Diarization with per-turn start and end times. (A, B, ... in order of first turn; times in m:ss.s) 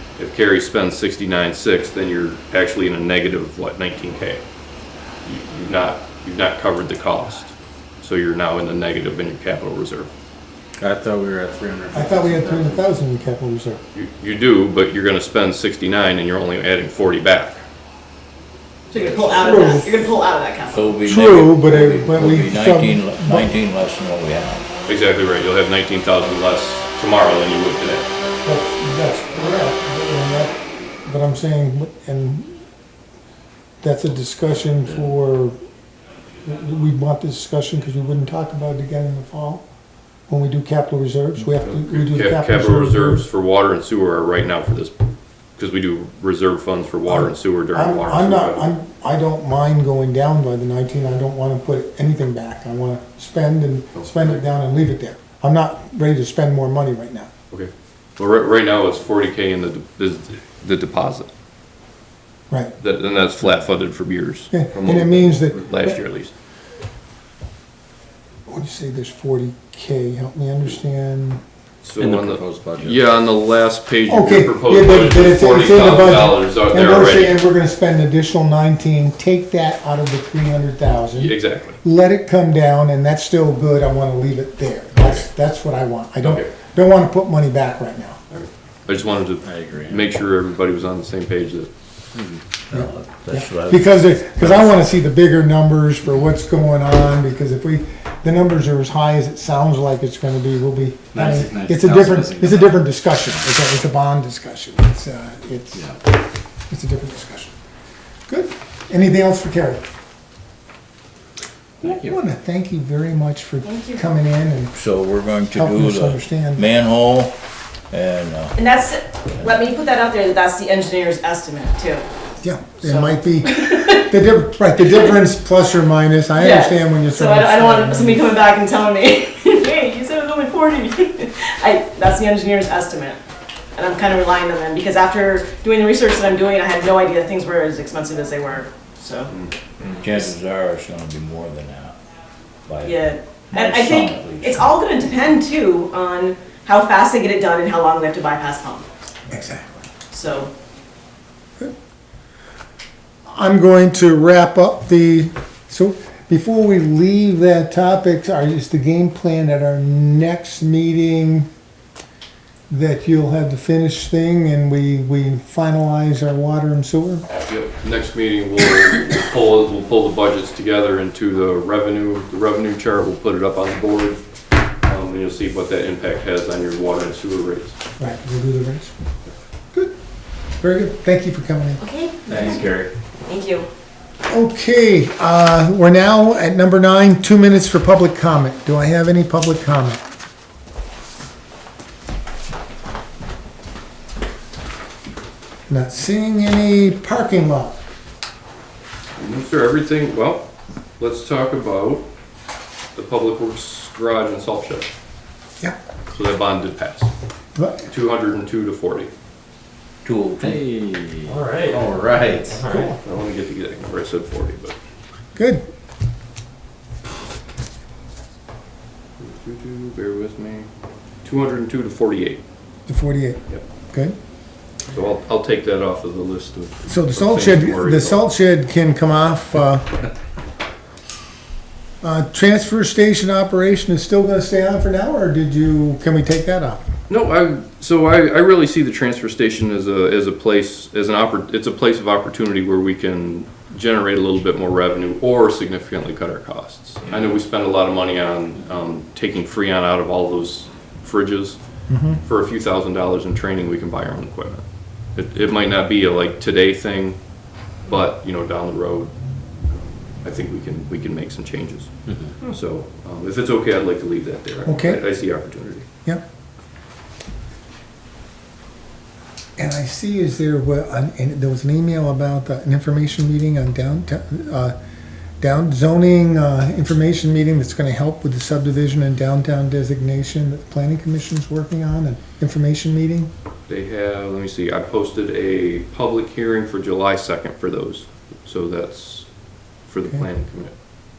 0:00.2-0:04.4 A
0:05.2-0:10.1 A
0:10.8-0:12.8 B
0:11.9-0:13.8 C
0:13.9-0:17.6 A
0:18.9-0:20.9 D
0:19.4-0:20.0 C
0:20.7-0:24.7 E
0:21.0-0:23.5 C
0:24.9-0:28.1 A
0:28.4-0:32.5 C
0:33.8-0:35.6 C
0:36.4-0:39.6 C
0:40.3-0:43.2 C
0:41.5-0:45.0 A
0:45.6-0:48.7 A
0:47.1-0:57.3 C
0:54.0-0:54.4 A
0:57.5-1:01.3 A
1:02.8-1:06.3 A
1:04.5-1:06.0 C
1:08.5-1:11.4 C
1:11.8-1:17.4 A
1:12.0-1:13.0 B
1:14.1-1:28.2 C
1:21.1-1:21.8 A
1:26.2-1:26.5 A
1:28.3-1:31.7 A
1:29.6-1:30.0 B
1:32.2-1:32.4 B
1:32.7-1:34.8 E
1:32.7-1:46.0 C
1:41.1-1:43.5 B
1:46.7-1:47.5 C
1:48.3-1:49.8 C
1:51.8-1:52.2 B
1:51.8-1:54.7 C
1:53.6-1:54.0 D
1:54.8-1:57.4 E
1:55.5-1:56.7 C
1:57.9-1:58.6 E
1:58.6-2:02.1 D
2:02.4-2:08.3 C
2:02.8-2:04.0 D
2:06.4-2:13.2 D
2:13.8-2:19.3 D
2:19.3-2:19.9 A
2:19.9-2:22.0 E
2:22.7-2:24.8 E
2:22.8-2:28.9 D
2:29.3-2:29.8 C
2:30.1-2:30.5 D
2:33.3-2:41.5 C
2:42.7-2:47.3 C
2:47.3-2:54.2 A
2:54.8-2:57.8 A
2:58.0-2:58.9 C
3:00.6-3:01.8 C
3:01.8-3:02.7 D
3:02.3-3:02.9 B
3:03.2-3:03.7 D
3:04.3-3:10.0 C
3:15.7-3:17.8 C
3:19.2-3:22.1 A
3:23.0-3:24.9 A
3:26.1-3:27.1 A
3:27.6-3:27.9 C
3:27.8-3:29.1 A
3:30.0-3:30.6 E
3:30.4-3:32.9 B
3:31.3-3:31.8 A
3:32.7-3:34.8 A
3:32.7-3:33.0 C
3:35.4-3:35.6 C
3:39.2-3:40.7 A
3:41.2-3:42.4 A
3:42.9-3:44.2 C
3:44.9-3:48.2 A
3:46.9-3:50.0 C
3:52.0-3:56.8 C
3:57.1-4:11.6 A
4:11.9-4:12.2 C
4:12.2-4:17.2 A
4:17.8-4:19.1 A
4:20.2-4:22.0 A
4:22.5-4:25.9 A
4:24.6-4:25.0 C
4:29.6-4:34.8 C
4:35.4-4:43.3 C
4:43.7-4:49.3 A
4:49.8-4:50.8 A